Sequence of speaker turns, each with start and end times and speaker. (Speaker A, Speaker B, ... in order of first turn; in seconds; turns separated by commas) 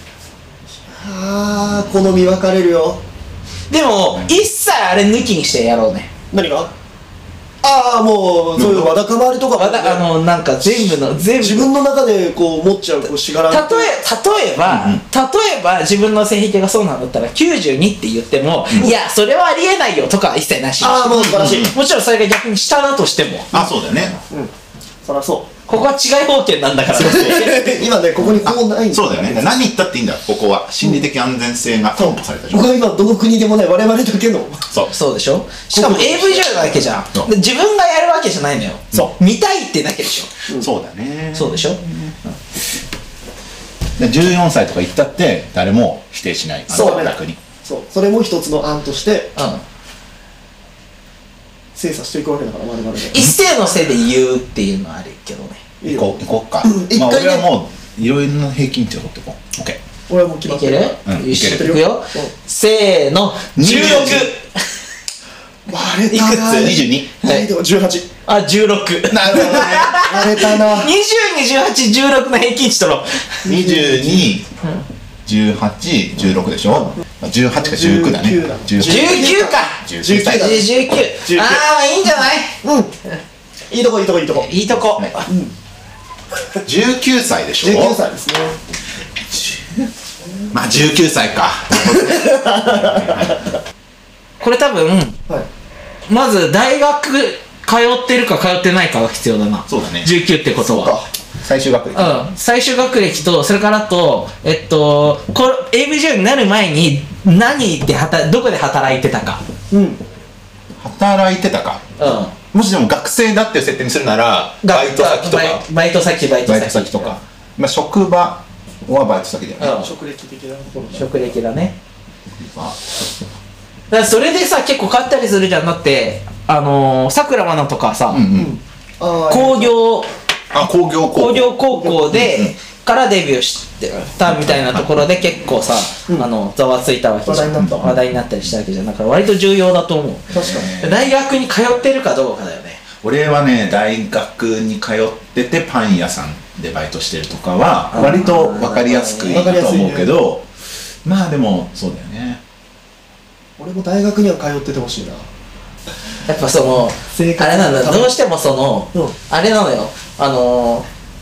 Speaker A: 0.9-3.0, Speaker B: 3.7-6.1, Speaker A: 6.3-6.7, Speaker A: 7.6-10.1, Speaker C: 8.6-8.9, Speaker B: 9.6-11.7, Speaker A: 11.4-14.0, Speaker B: 13.5-23.5, Speaker C: 14.7-15.0, Speaker A: 20.8-21.7, Speaker C: 21.1-21.8, Speaker C: 23.5-24.2, Speaker A: 25.0-25.5, Speaker B: 25.7-27.9, Speaker C: 26.9-27.2, Speaker A: 26.9-29.5, Speaker C: 28.2-32.8, Speaker A: 31.9-34.6, Speaker B: 34.9-40.3, Speaker A: 35.7-36.9, Speaker C: 40.6-42.7, Speaker B: 41.3-41.8, Speaker C: 44.0-47.4, Speaker A: 46.7-49.4, Speaker B: 46.8-47.1, Speaker B: 49.4-49.6, Speaker A: 51.8-53.2, Speaker B: 53.1-55.6, Speaker A: 55.8-56.1, Speaker C: 55.8-59.8, Speaker A: 56.6-57.4, Speaker A: 60.1-62.3, Speaker B: 60.5-64.6, Speaker C: 61.0-61.8, Speaker C: 63.6-64.3, Speaker A: 65.7-68.1, Speaker B: 66.1-67.5, Speaker C: 66.5-67.2, Speaker B: 68.2-73.4, Speaker C: 69.1-69.9, Speaker A: 69.3-70.9, Speaker C: 73.4-74.5, Speaker A: 73.5-74.3, Speaker C: 75.2-80.7, Speaker A: 77.5-80.7, Speaker B: 78.8-82.6, Speaker A: 81.2-81.7, Speaker A: 82.6-82.9, Speaker A: 83.7-84.5, Speaker B: 84.4-85.3, Speaker C: 84.7-85.2, Speaker A: 85.3-85.5, Speaker C: 86.6-88.0, Speaker A: 87.6-88.6, Speaker C: 89.3-89.9, Speaker C: 90.5-93.5, Speaker A: 91.9-93.6, Speaker B: 94.4-95.2, Speaker B: 96.1-100.9, Speaker C: 99.7-100.1, Speaker A: 100.6-101.1, Speaker C: 101.4-102.3, Speaker B: 101.9-109.4, Speaker A: 109.7-110.0, Speaker C: 110.8-115.6, Speaker B: 112.0-112.3, Speaker B: 114.6-117.2, Speaker C: 116.5-119.8, Speaker B: 119.6-119.9, Speaker A: 119.7-121.4, Speaker B: 120.8-121.8, Speaker C: 122.4-122.8, Speaker B: 123.9-128.2, Speaker C: 128.1-128.5, Speaker A: 128.3-129.8, Speaker B: 129.3-130.1, Speaker C: 130.5-131.5, Speaker B: 131.1-142.8, Speaker A: 131.7-132.2, Speaker C: 132.1-132.6, Speaker C: 134.2-134.9, Speaker A: 137.2-137.8, Speaker C: 137.6-138.5, Speaker A: 140.3-140.7, Speaker C: 140.3-141.1, Speaker C: 143.0-150.5, Speaker B: 147.9-149.5, Speaker A: 149.3-150.1, Speaker C: 151.0-152.4, Speaker A: 153.6-155.2, Speaker B: 156.3-160.9, Speaker A: 157.1-158.2